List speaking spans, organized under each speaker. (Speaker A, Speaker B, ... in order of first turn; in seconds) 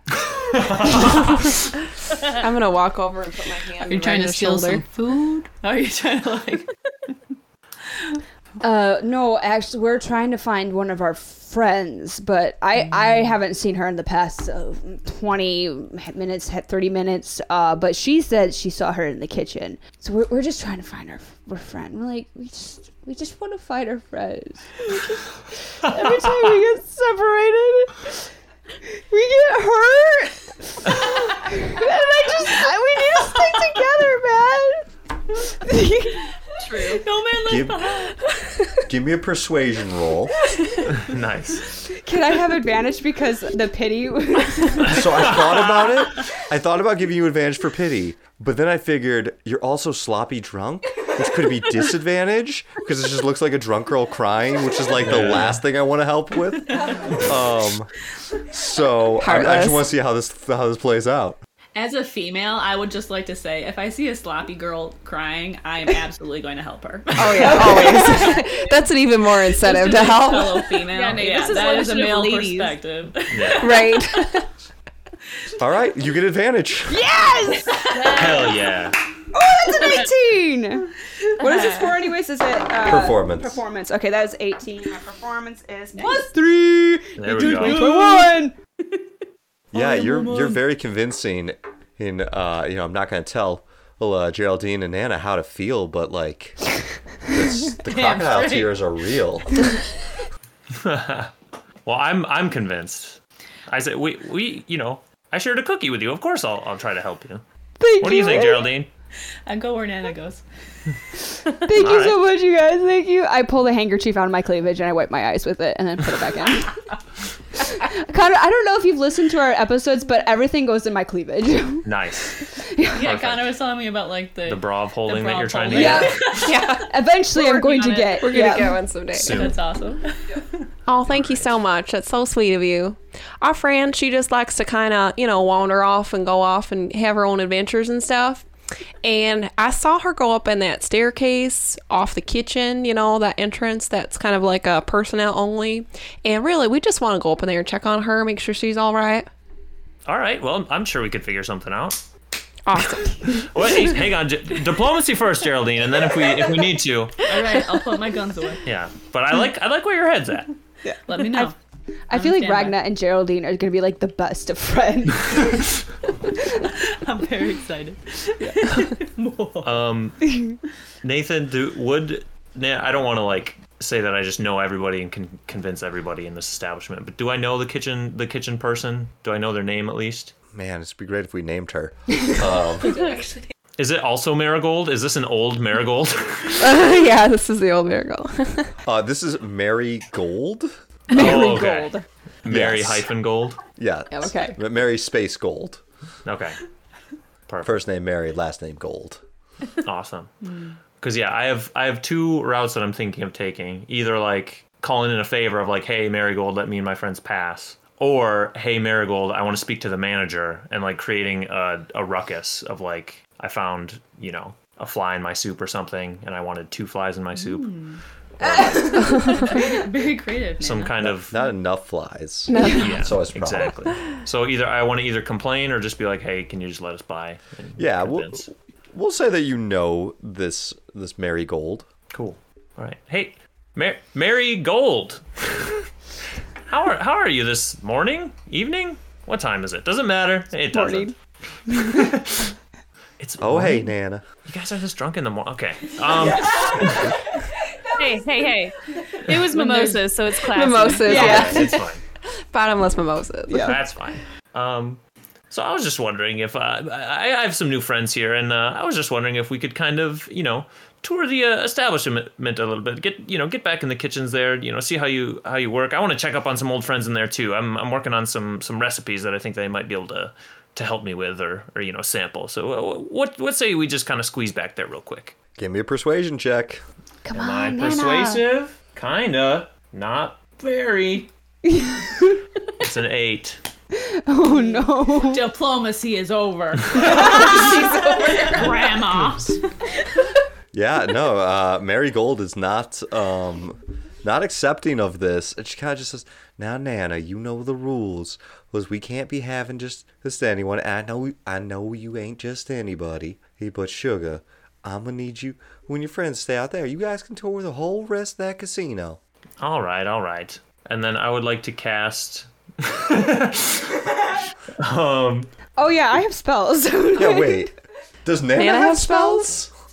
Speaker A: 0.3-1.4, 40.9-41.7, 44.8-46.0, 55.0-55.6, 73.3-73.8, 78.1-79.0, 87.2-88.0, 100.7-101.3, 101.8-107.4, 108.0-108.9, 111.7-112.2, 121.8-123.7, 124.5-126.5, 129.1-129.6, 131.1-131.5, 150.1-152.0, 153.2-157.2, 158.7-160.5, 169.6-180.3, 183.8-186.8, 191.1-193.6, 196.2-196.6, 197.5-197.8, 199.8-200.3, 201.0-219.5, 220.6-221.3, 222.7-228.5, 232.1-235.8, 236.7-241.2, 241.7-242.5, 243.2-247.2, 251.1-252.0, 253.6-275.4, 277.3-281.3, 282.8-283.6, 286.9-287.4, 309.6-314.1, 314.8-315.5
Speaker B: 2.3-4.8, 59.2-59.9, 67.2-70.7, 73.5-74.5, 126.3-126.9, 128.2-129.5, 130.9-138.5, 139.0-149.3, 152.7-153.6, 182.9-183.2, 186.6-188.8, 219.1-219.4, 222.5-223.1, 250.3-251.9, 252.5-253.8, 318.6-319.6
Speaker C: 3.8-6.7, 36.7-38.6, 61.8-68.6, 69.5-74.2, 78.0-78.4, 86.0-86.3, 87.4-88.4, 89.8-90.6, 97.8-98.8, 109.5-110.5, 122.9-126.9, 129.2-130.7, 157.3-158.6, 161.1-161.6, 162.1-162.8, 166.8-169.8, 200.5-200.7, 217.3-218.0, 219.1-221.1, 284.5-289.6
Speaker D: 8.6-28.3, 28.8-36.2, 41.9-45.3, 67.6-68.0, 76.9-78.5, 79.3-88.5, 107.8-108.7, 111.6-116.8, 117.6-123.2, 125.7-128.9, 160.8-161.5, 162.1-165.7, 191.1-192.0, 194.2-194.6, 218.4-219.4, 222.5-222.8, 240.7-241.2, 241.7-242.1, 251.1-251.8, 253.5-253.8, 277.2-278.4, 281.6-282.4, 283.9-285.5, 286.9-288.9, 315.8-317.7
Speaker E: 36.6-37.0, 70.9-72.8, 77.9-78.5, 127.4-128.2, 247.9-251.4
Speaker F: 37.4-38.0, 38.9-40.4, 44.8-57.9, 58.5-61.4, 75.6-77.1, 82.8-83.6, 89.7-99.7, 180.5-183.0, 188.9-191.5, 192.5-193.1, 193.8-195.8, 197.6-199.2, 221.0-223.8, 227.8-231.9, 243.4-244.3, 246.1-246.5, 275.6-276.8, 290.7-309.2, 317.2-319.7